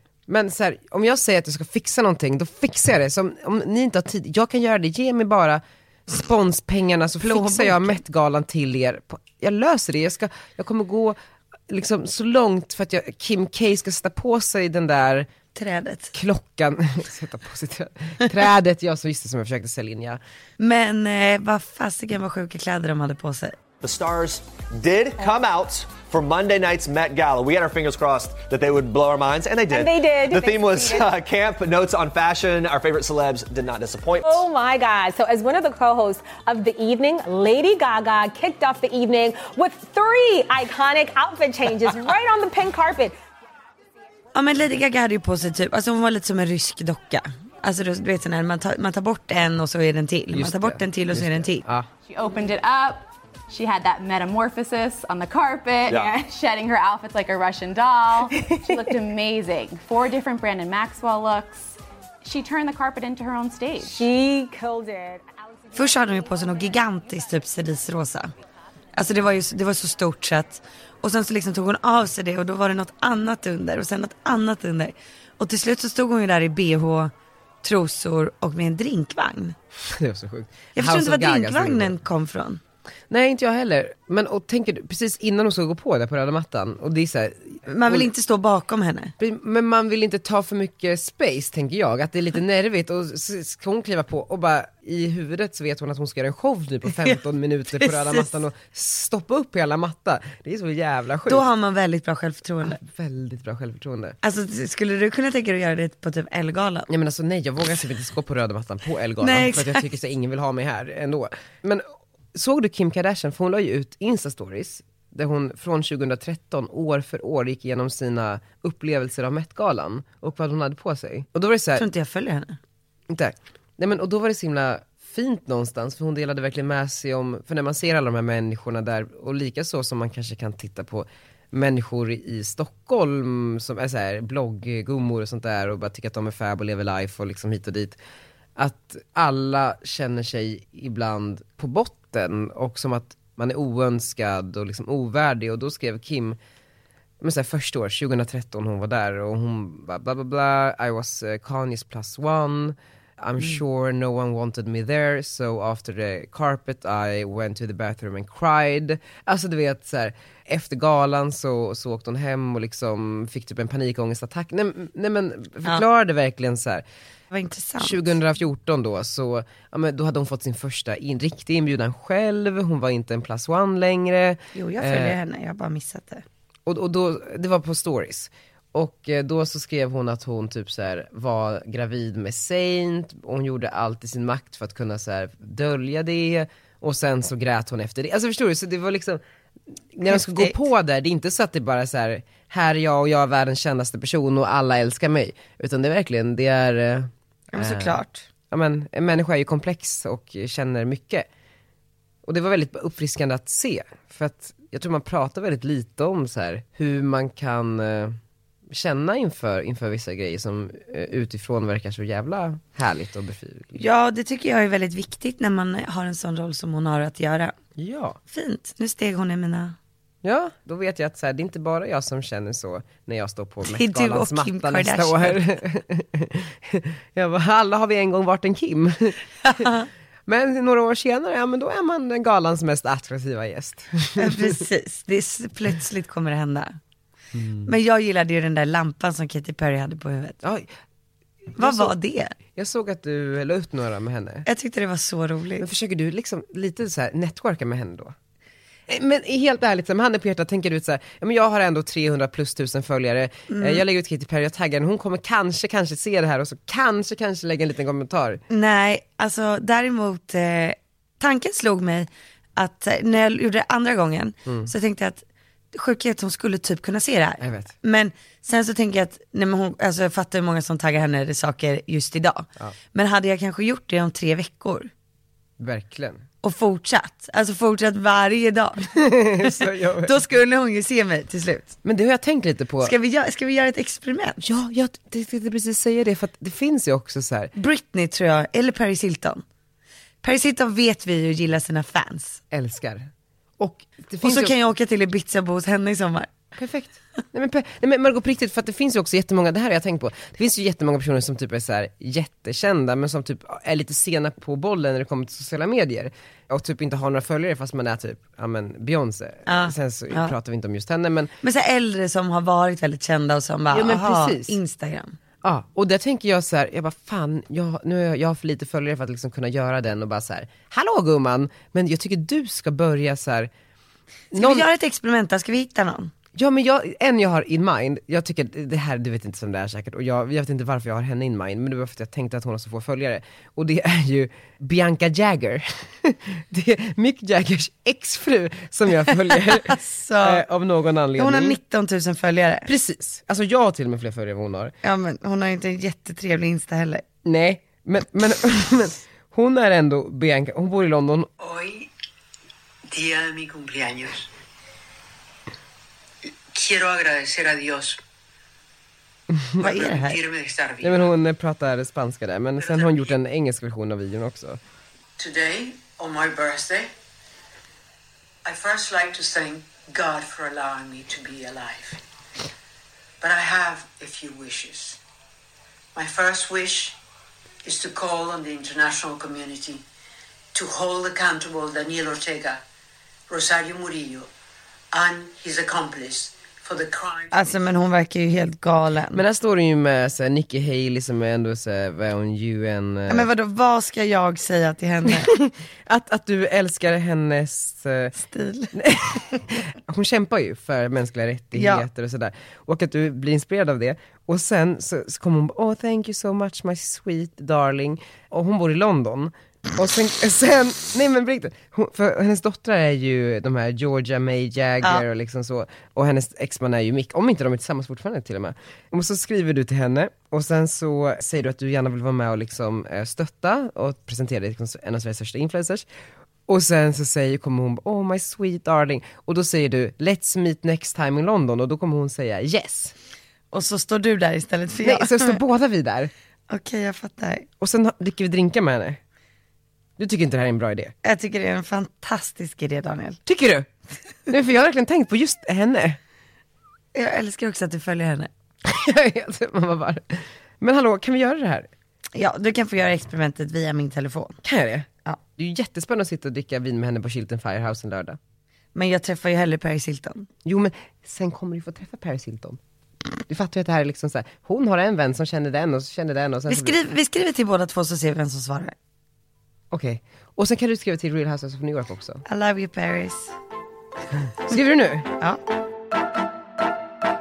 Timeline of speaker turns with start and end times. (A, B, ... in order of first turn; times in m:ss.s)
0:00.3-0:11.2 A
0:07.2-0:08.0 B
0:11.7-0:15.3 A
0:15.6-0:16.1 B
0:16.1-0:20.2 A
0:20.6-0:23.6 B
0:23.8-0:34.4 C
0:29.7-0:31.1 D
0:34.2-0:43.2 D
0:44.4-0:51.7 B
0:50.3-0:51.9 A
0:52.1-1:04.1 E
0:55.9-0:56.2 C
1:03.8-1:05.2 D
1:05.7-1:08.3 B
1:09.0-1:17.1 B
1:17.6-1:19.6 B
1:19.8-1:22.0 A
1:20.8-1:22.6 B
1:23.1-1:28.1 A
1:27.7-1:29.1 B
1:29.2-1:41.4 A
1:37.8-1:38.3 B
1:41.3-1:42.8 B
1:42.7-1:44.2 A
1:44.2-1:46.9 B
1:46.9-2:01.9 A
1:49.2-1:49.9 B
2:01.8-2:02.6 B
2:03.1-2:18.0 A
2:18.6-2:26.4 A
2:27.2-2:46.8 A
2:47.3-2:48.1 B
2:47.8-2:55.2 A
2:54.6-2:56.2 B
2:56.7-3:09.2 A
3:09.9-3:21.3 A
3:10.1-3:10.6 B
3:17.5-3:18.3 B
3:22.2-3:28.2 A
3:28.7-3:33.8 A
3:33.8-3:37.5 B
3:37.8-3:38.2 A
3:38.3-3:39.8 B
3:40.2-3:49.7 A
3:43.6-3:45.4 B
3:49.4-3:49.9 B
3:50.3-3:54.6 A
3:54.2-3:56.8 B
3:57.4-3:57.7 A
3:57.6-4:00.4 B
4:00.4-4:00.7 A
4:01.5-4:02.0 A
4:01.6-4:02.4 B
4:02.5-4:04.5 A
4:04.5-4:05.7 B
4:05.6-4:08.2 A
4:08.9-4:18.4 A
4:13.5-4:13.8 B
4:18.5-4:34.9 B
4:24.5-4:24.7 A
4:27.4-4:27.7 A
4:35.6-4:36.2 A
4:36.4-4:41.8 B
4:38.9-4:40.1 A
4:41.8-4:42.9 A
4:42.8-4:44.4 B
4:44.4-4:47.5 A
4:47.6-4:49.4 B
4:50.2-4:52.4 B
4:52.5-4:54.6 A
4:54.2-4:56.3 B
4:56.6-5:11.3 A
5:09.5-5:10.4 B
5:11.4-5:15.2 B
5:13.7-5:14.6 A
5:15.4-5:23.5 A
5:24.3-5:24.7 A
5:24.3-5:26.1 B
5:26.4-5:41.6 A
5:39.3-5:40.4 B
5:41.2-5:42.7 B
5:42.7-5:44.7 A
5:44.8-5:47.0 B
5:47.2-5:51.3 A
5:51.4-5:51.9 F
5:52.9-5:54.3 F
5:56.5-5:58.0 F
5:59.3-5:59.7 A
5:59.6-6:00.2 B
5:59.6-6:01.1 F
6:00.8-6:04.6 A
6:02.6-6:03.0 F
6:05.2-6:06.9 F
6:08.4-6:12.0 F
6:13.2-6:15.0 F
6:16.0-6:17.0 F
6:17.6-6:19.8 F
6:20.5-6:22.6 F
6:23.3-6:24.3 F
6:24.9-6:27.5 F
6:27.3-6:29.2 B
6:29.1-6:33.3 A
6:33.1-6:35.3 B
6:35.1-6:38.2 A
6:38.2-6:38.8 B
6:38.7-7:05.9 A
6:41.6-6:41.9 B
7:06.5-7:12.9 A
7:13.5-7:15.4 B
7:14.8-7:16.1 A
7:16.5-7:17.5 B
7:17.6-7:19.0 A
7:20.0-7:20.9 A
7:21.0-7:23.2 B
7:23.3-7:23.7 A
7:24.3-7:26.0 A
7:26.9-7:28.3 B
7:28.6-7:31.7 A
7:32.2-7:34.4 B
7:34.4-7:38.2 A
7:38.8-7:40.3 B
7:40.4-7:42.6 A
7:43.3-7:46.8 A
7:46.5-7:48.8 B
7:49.7-7:52.2 A
7:52.3-7:53.3 B
7:54.5-7:55.1 A